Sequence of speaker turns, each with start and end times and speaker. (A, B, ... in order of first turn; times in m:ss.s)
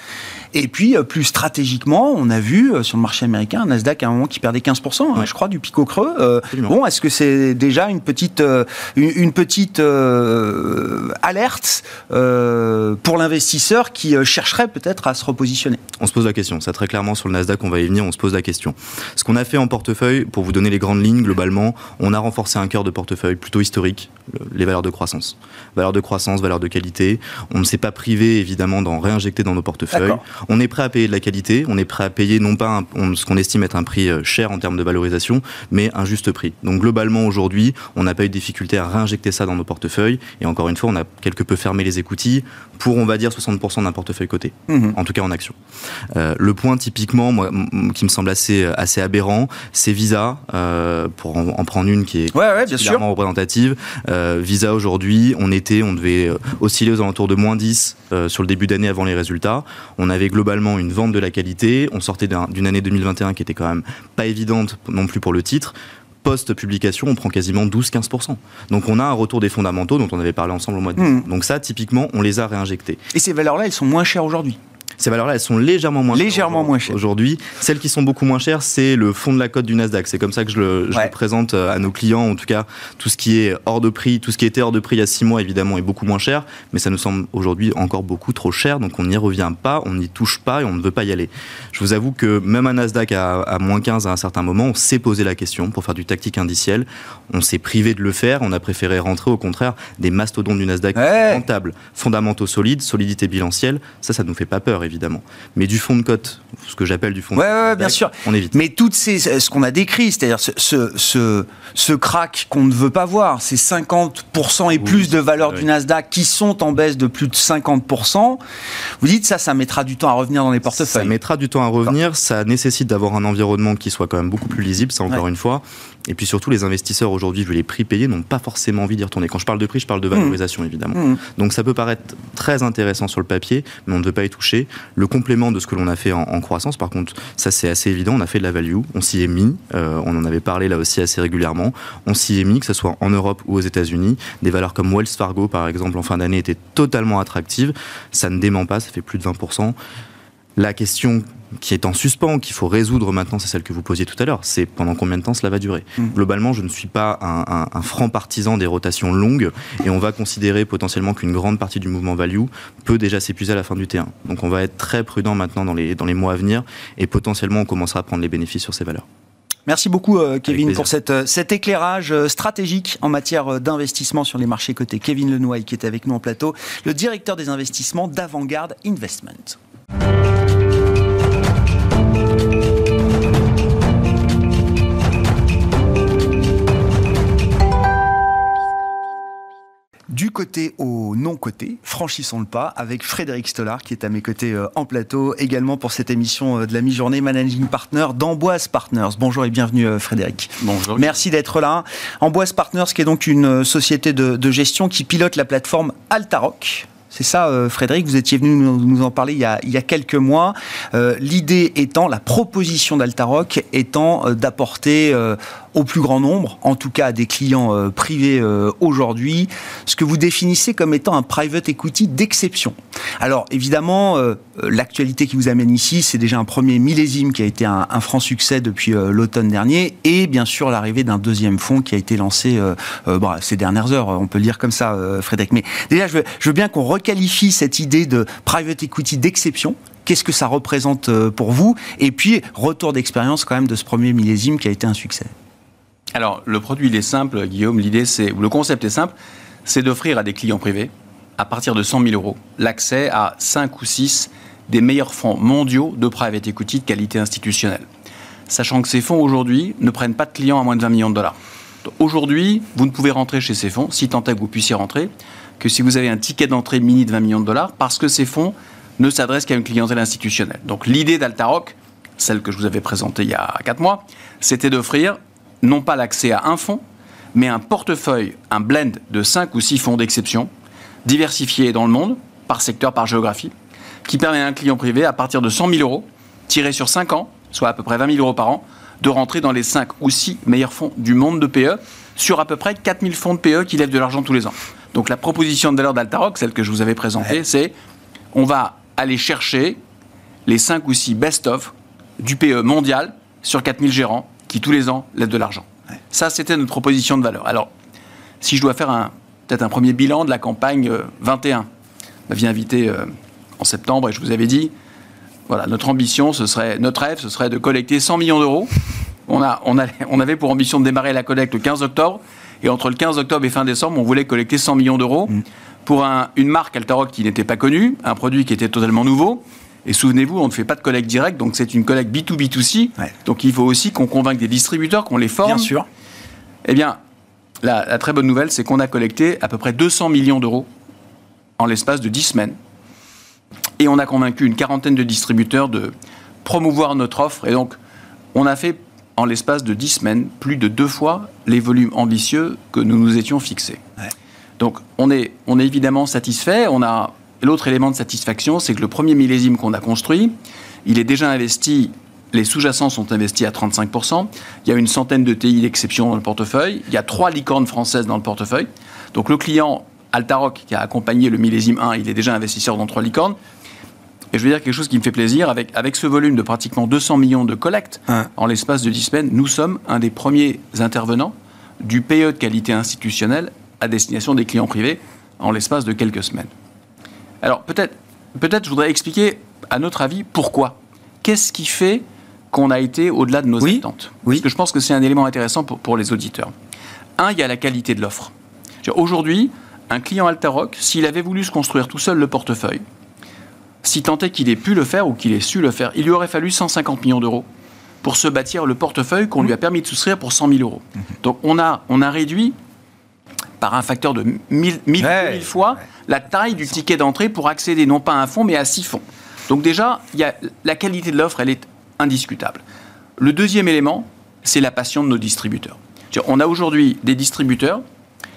0:00.5-0:15.8 A
0:16.0-0:45.6 B
0:29.9-0:30.2 A
0:44.7-0:45.0 A
0:46.1-1:13.0 B
0:52.3-0:53.0 A
1:11.0-1:11.3 A
1:13.1-1:14.6 A
1:15.0-1:48.6 B
1:16.1-1:17.0 A
1:41.0-1:41.4 A
1:47.4-1:58.4 A
1:54.9-1:55.6 B
1:59.0-2:01.1 A
2:00.8-2:29.8 B
2:10.9-2:11.2 A
2:30.6-2:49.0 B
2:49.6-2:59.6 A
2:50.5-2:50.9 B
3:10.1-4:05.3 A
3:20.6-3:21.2 C
4:06.1-4:09.1 C
4:09.6-4:17.8 C
4:18.5-4:36.8 C
4:37.3-4:40.5 C
4:41.0-4:43.5 C
4:44.0-4:57.7 C
4:58.3-4:59.8 C
5:00.4-5:07.7 C
5:08.4-5:11.7 C
5:12.3-5:14.7 C
5:15.5-5:18.7 C
5:19.3-5:35.7 C
5:35.4-5:35.8 A
5:36.6-5:37.0 C
5:37.6-5:40.7 C
5:41.6-5:42.5 C
5:43.8-5:45.9 C
5:46.4-5:47.7 C
5:48.3-5:53.8 C
5:54.6-6:00.3 C
6:00.8-6:13.4 C
6:14.3-6:26.5 C
6:27.4-6:36.5 C
6:33.6-6:34.4 A
6:37.2-6:38.3 C
6:38.8-6:42.8 C
6:43.8-6:47.4 C
6:48.0-6:52.5 C
6:53.6-7:02.6 C
6:55.0-6:55.5 A
7:03.2-7:07.8 C